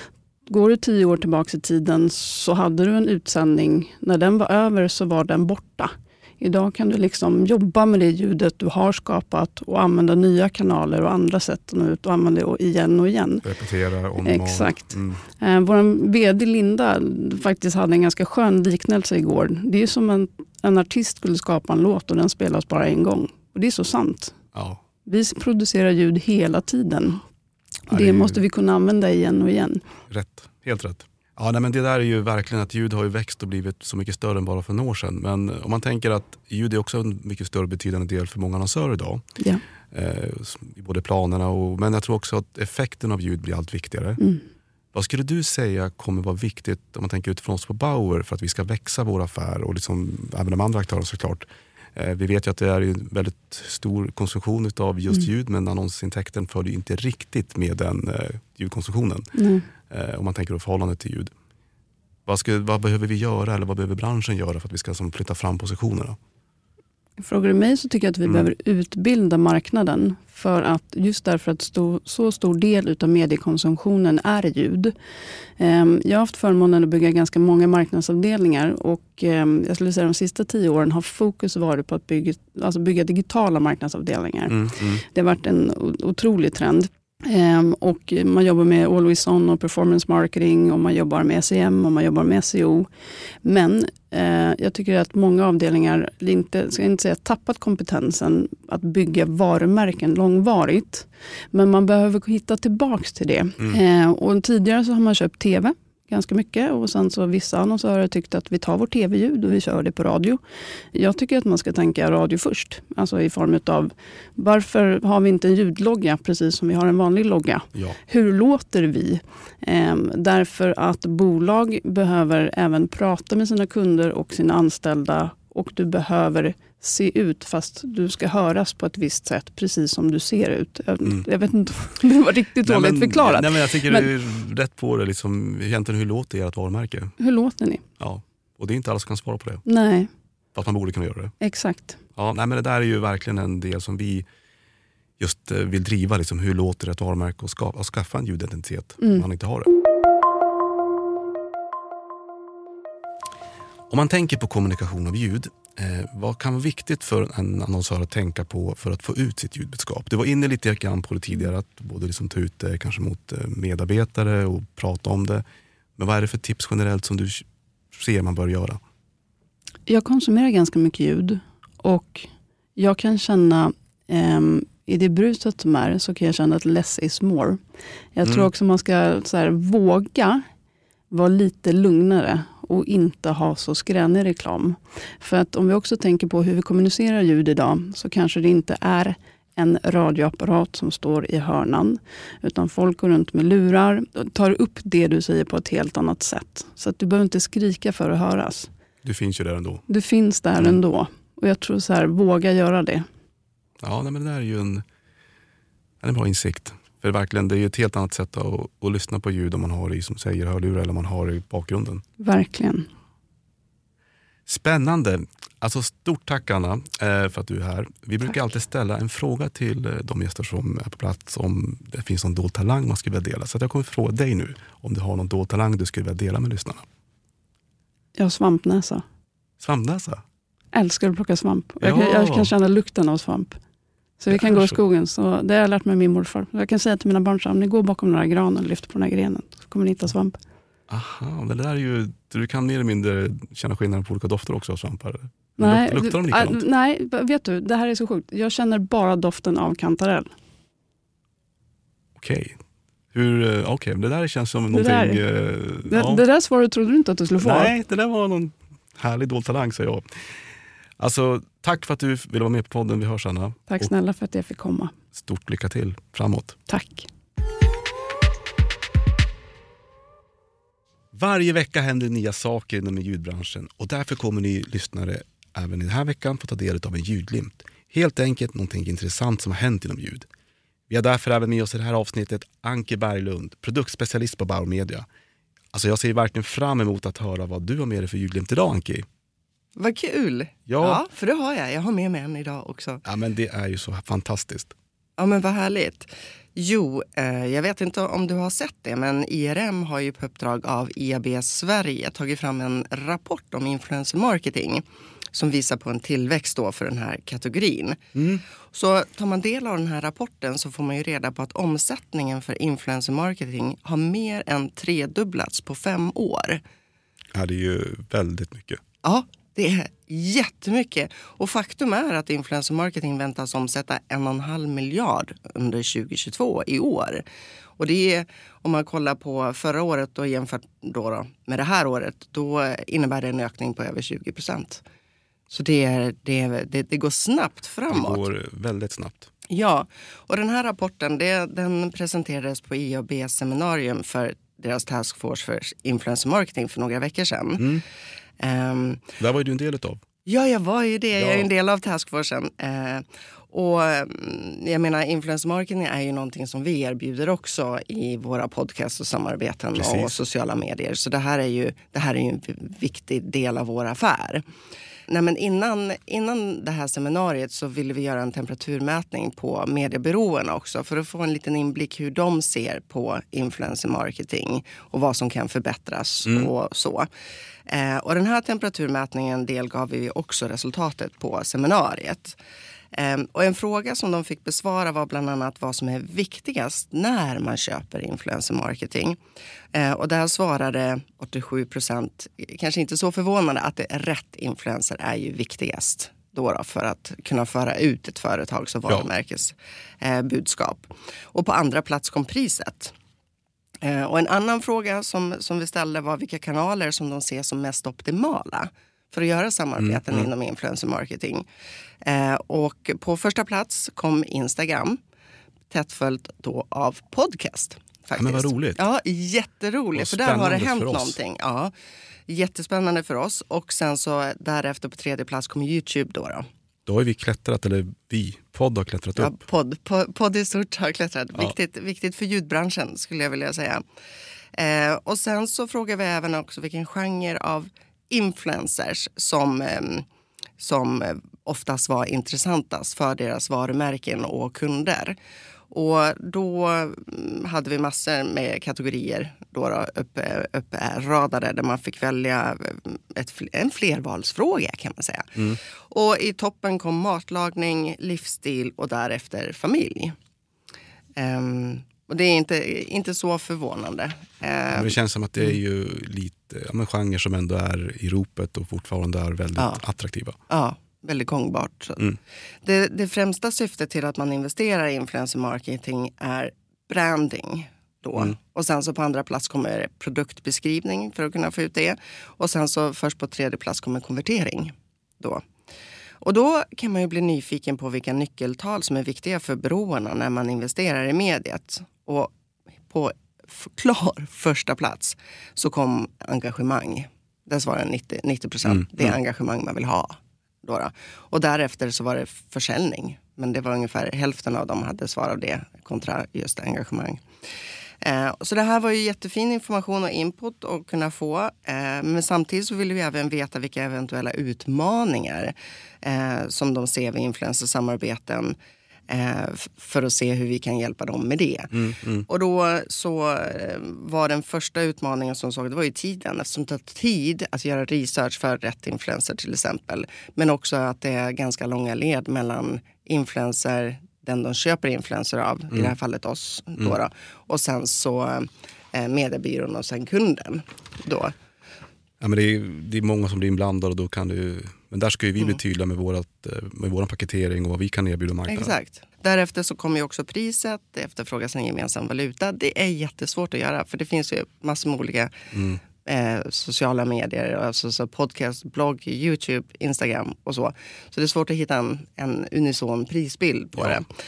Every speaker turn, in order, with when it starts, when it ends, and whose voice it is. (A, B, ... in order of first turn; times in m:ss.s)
0:00.4-0:13.4 A
0:13.4-0:15.2 B
0:14.2-0:24.3 A
0:24.5-0:24.8 B
0:25.0-0:27.2 A
0:27.9-0:29.8 A
0:27.9-0:28.4 B
0:30.1-0:39.2 B
0:39.9-0:44.2 B
0:44.2-0:44.4 A
0:44.9-0:59.3 B
0:59.3-0:59.6 A
0:59.9-1:01.3 B
1:02.2-1:06.2 B
1:07.2-1:14.9 A
1:15.6-1:32.9 A
1:24.5-1:25.0 B
1:33.4-1:50.4 A
1:50.9-2:14.1 A
2:12.6-2:17.1 B
2:17.2-2:17.8 A
2:18.0-2:19.6 B
2:19.6-2:20.1 A
2:20.5-2:21.3 B
2:21.4-2:22.0 A
2:22.2-2:24.2 B
2:25.2-2:29.7 B
2:29.0-2:29.2 A
2:33.9-2:45.4 B
2:46.0-2:48.8 B
2:49.9-2:57.6 A
2:58.1-3:00.4 A
2:58.2-2:58.5 B
3:01.1-3:18.7 A
3:19.0-3:19.8 B
3:19.9-3:23.0 A
3:23.8-3:24.8 B
3:26.0-3:32.0 B
3:32.2-3:32.9 A
3:34.5-3:46.8 B
3:48.2-3:49.0 A
3:49.6-3:50.2 B
3:50.7-3:53.6 A
3:51.8-3:52.5 B
3:54.2-4:00.4 A
3:54.3-3:54.7 B
4:00.9-4:06.6 B
4:05.6-4:10.3 A
4:12.2-4:12.6 B
4:13.1-4:16.2 B
4:14.7-4:15.2 A
4:15.9-4:17.7 A
4:17.4-4:20.0 B
4:21.0-4:23.9 B
4:23.7-4:24.9 A
4:25.1-4:26.6 B
4:26.7-4:27.1 A
4:31.1-4:40.2 B
4:40.9-4:45.1 B
4:45.7-4:49.0 B
4:49.8-4:53.0 C
4:50.7-4:51.0 B
4:53.0-4:54.7 B
4:55.2-5:08.0 C
5:08.1-5:08.4 B
5:08.7-5:16.6 C
5:17.3-5:18.8 B
5:19.0-5:27.2 C
5:27.8-5:34.8 C
5:35.5-5:38.3 C
5:37.9-5:39.3 B
5:39.5-5:47.7 C
5:47.6-5:47.8 B
5:48.4-5:49.0 C
5:49.2-5:50.0 B
5:50.2-6:04.4 C
5:51.2-5:51.5 B
5:59.7-6:00.1 B
6:05.1-6:17.1 C
6:17.7-6:22.4 C
6:22.9-6:29.2 C
6:29.7-6:42.9 C
6:43.8-6:51.4 C
6:49.8-6:50.3 B
6:52.0-6:55.0 C
6:55.7-7:01.7 C
6:58.2-6:58.8 B
6:59.9-7:01.2 B
7:02.3-7:06.4 C
7:06.8-7:09.4 B
7:09.2-7:13.8 C
7:14.6-7:20.0 C
7:20.6-7:25.2 C
7:25.7-7:35.3 C
7:35.9-7:40.1 C
7:41.2-7:44.9 C
7:44.7-7:50.4 B
7:50.5-7:52.1 C
7:52.6-8:05.4 C
8:06.2-8:12.3 C
8:12.9-8:27.2 C
8:18.6-8:19.1 B
8:28.0-8:38.6 C
8:39.1-9:01.3 C
8:41.7-8:42.3 B
9:02.2-9:08.7 B
9:08.5-9:15.3 C
9:15.5-9:15.8 B
9:16.0-9:24.1 C
9:23.8-9:24.0 B